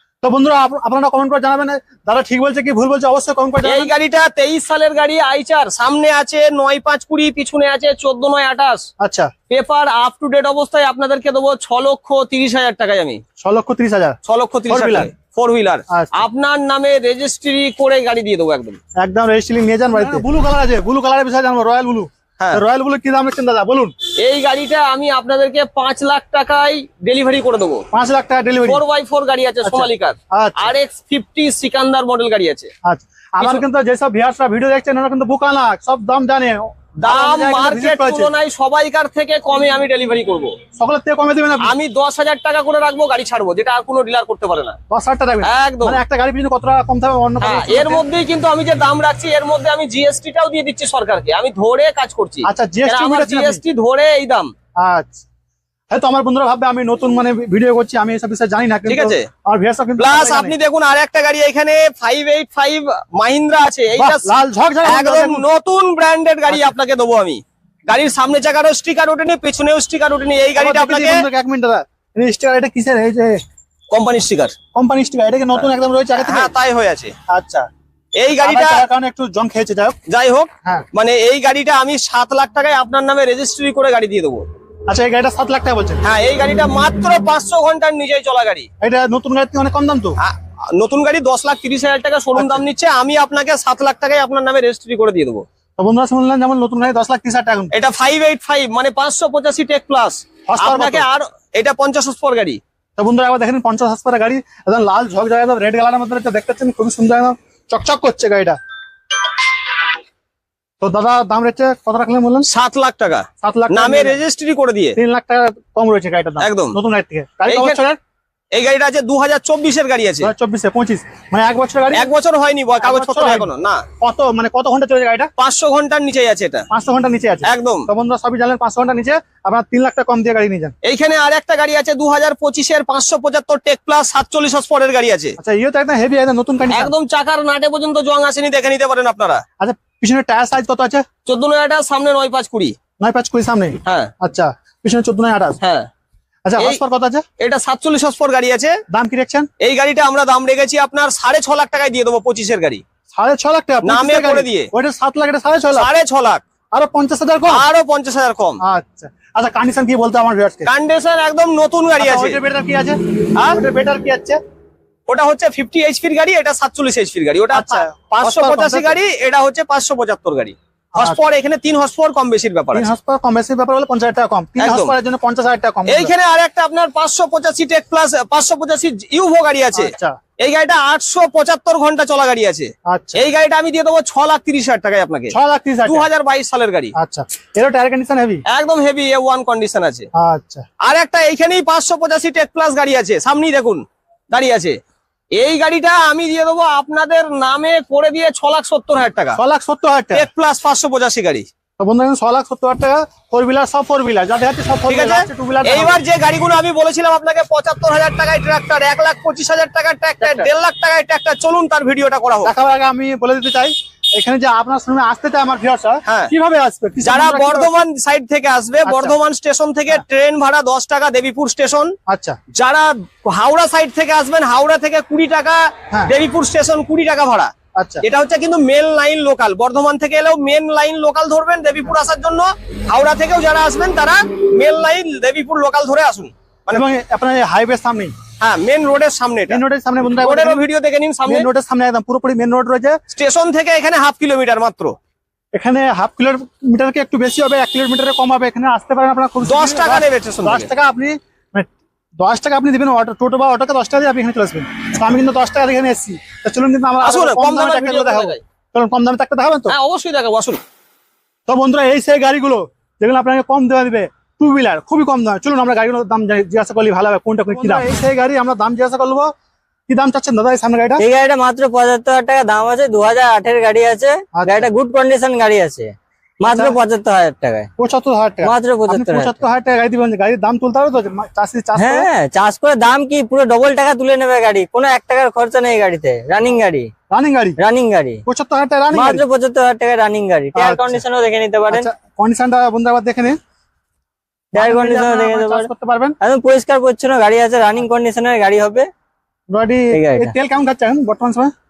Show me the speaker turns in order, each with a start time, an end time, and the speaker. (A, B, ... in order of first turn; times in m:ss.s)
0:00.2-0:03.9 A
0:03.6-0:08.9 B
0:09.0-0:09.3 A
0:09.5-0:13.2 B
0:13.4-0:15.1 A
0:14.2-0:18.8 B
0:15.9-0:16.2 A
0:19.0-0:23.9 A
0:20.0-0:20.2 B
0:24.2-0:27.9 B
0:27.9-0:28.8 A
0:28.6-0:32.7 B
0:29.6-0:30.7 A
0:32.8-0:38.3 A
0:37.0-0:40.6 B
0:40.8-0:41.7 A
0:41.6-0:44.8 B
0:44.9-0:48.0 A
0:45.4-0:46.0 B
0:47.4-0:54.5 B
0:52.4-0:53.6 A
0:54.8-0:55.2 A
0:55.9-1:00.5 A
0:58.9-0:59.3 B
1:00.0-1:04.3 B
1:04.0-1:05.4 A
1:04.8-1:11.3 B
1:10.6-1:13.4 A
1:13.9-1:14.6 B
1:14.7-1:16.5 A
1:15.6-1:17.2 B
1:17.3-1:17.7 A
1:18.2-1:18.9 B
1:18.4-1:20.0 A
1:20.1-1:24.5 B
1:24.9-1:26.0 A
1:26.0-1:28.7 B
1:28.8-1:30.2 A
1:30.2-1:35.4 B
1:32.4-1:32.6 A
1:35.8-1:37.7 A
1:37.7-1:42.6 B
1:40.5-1:41.1 A
1:43.0-1:48.6 A
1:50.8-1:52.5 A
1:52.4-1:55.0 B
1:53.4-1:54.2 A
1:55.0-1:58.0 A
1:56.4-1:56.8 B
1:57.5-1:57.8 B
1:58.5-2:00.3 B
2:00.2-2:02.1 A
2:01.9-2:03.8 B
2:02.8-2:03.5 A
2:04.0-2:05.3 A
2:05.4-2:06.7 B
2:06.7-2:10.7 A
2:07.4-2:07.9 B
2:10.8-2:15.4 B
2:15.4-2:16.9 A
2:16.7-2:19.4 B
2:19.6-2:21.0 A
2:21.3-2:22.8 B
2:23.0-2:25.6 A
2:23.9-2:24.1 B
2:25.6-2:25.9 B
2:26.4-2:27.2 A
2:27.4-2:28.8 B
2:28.9-2:29.5 A
2:29.6-2:32.8 B
2:33.1-2:35.9 A
2:33.8-2:34.7 B
2:35.7-2:36.4 B
2:36.7-2:37.6 A
2:37.5-2:38.6 B
2:38.6-2:40.7 A
2:40.7-2:42.4 B
2:42.0-2:44.4 A
2:45.1-2:52.9 B
2:47.5-2:49.0 A
2:52.7-2:56.1 A
2:54.6-2:54.9 B
2:55.9-3:07.0 B
2:59.7-3:00.2 A
3:02.9-3:03.2 A
3:05.3-3:06.1 A
3:07.0-3:08.4 A
3:08.5-3:10.1 B
3:10.2-3:10.7 A
3:10.8-3:14.8 B
3:15.4-3:19.4 B
3:19.4-3:20.2 A
3:20.1-3:21.5 B
3:21.8-3:26.0 A
3:24.9-3:32.5 B
3:32.4-3:37.8 A
3:36.1-3:36.3 B
3:37.0-3:41.9 B
3:38.8-3:39.2 A
3:42.1-3:42.4 A
3:42.6-3:47.5 B
3:47.8-3:48.0 A
3:48.0-3:56.9 B
3:56.7-3:58.1 A
3:58.4-4:01.5 B
3:59.5-4:00.6 A
4:01.3-4:03.0 A
4:03.1-4:05.0 B
4:05.6-4:19.7 A
4:09.4-4:10.7 B
4:17.0-4:18.4 B
4:19.7-4:20.6 B
4:21.5-4:29.3 A
4:27.5-4:27.9 C
4:29.9-4:31.0 A
4:31.0-4:37.7 C
4:34.4-4:34.7 A
4:36.4-4:36.8 A
4:37.8-4:42.1 A
4:38.4-4:39.4 C
4:41.8-4:46.9 C
4:47.1-4:47.6 A
4:47.6-4:48.2 C
4:48.3-4:49.2 A
4:48.9-4:51.9 C
4:50.5-4:51.0 A
4:51.7-4:53.4 A
4:54.5-4:56.2 A
4:54.6-4:55.7 C
4:56.2-4:58.9 C
4:59.5-5:01.5 A
4:59.9-5:00.3 C